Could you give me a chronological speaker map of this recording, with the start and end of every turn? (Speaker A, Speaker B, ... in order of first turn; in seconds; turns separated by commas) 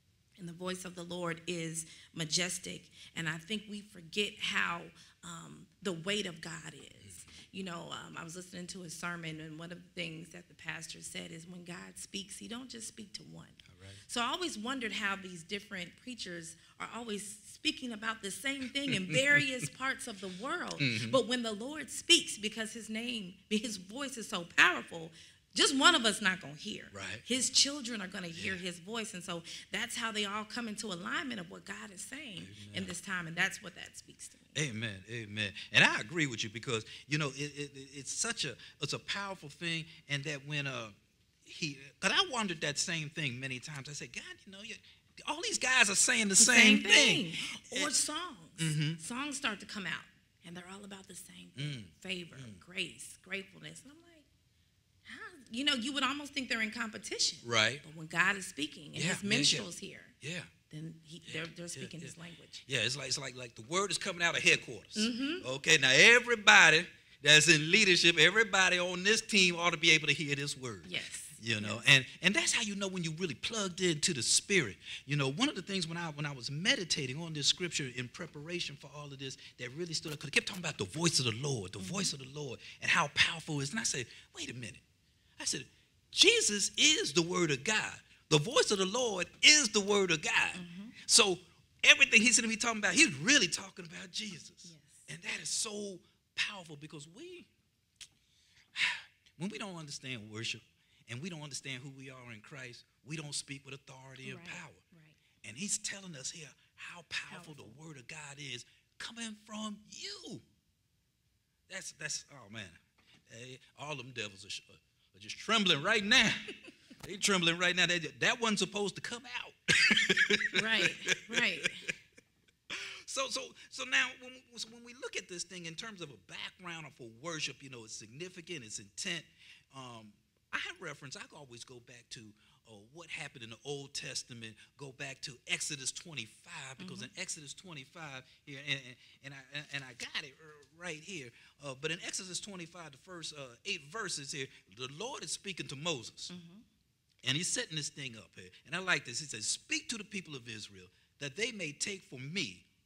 Speaker A: 0.4-34.5, Speaker B: 7.0-7.3, Speaker B: 13.7-14.0, Speaker B: 19.1-19.4, Speaker B: 20.8-21.2, Speaker B: 26.9-27.2, Speaker B: 28.3-28.6, Speaker B: 32.4-32.9, Speaker B: 34.5-47.9, Speaker A: 46.4-54.2, Speaker B: 48.6-49.0, Speaker B: 51.5-52.6, Speaker A: 55.0-60.1, Speaker B: 57.4-57.8, Speaker B: 58.9-59.7, Speaker B: 60.2-60.5, Speaker A: 60.7-62.6, Speaker B: 61.2-62.1, Speaker B: 62.6-84.8, Speaker A: 64.9-65.5, Speaker A: 70.8-71.8, Speaker A: 81.8-82.1, Speaker B: 85.4-97.5, Speaker A: 90.5-91.0, Speaker A: 94.6-95.1, Speaker B: 98.7-104.8, Speaker A: 104.2-105.2, Speaker B: 105.4-110.4, Speaker A: 107.3-107.8, Speaker B: 111.7-121.5, Speaker A: 120.5-121.9, Speaker B: 122.7-146.3, Speaker A: 136.8-137.1, Speaker A: 146.3-146.6, Speaker B: 147.2-152.7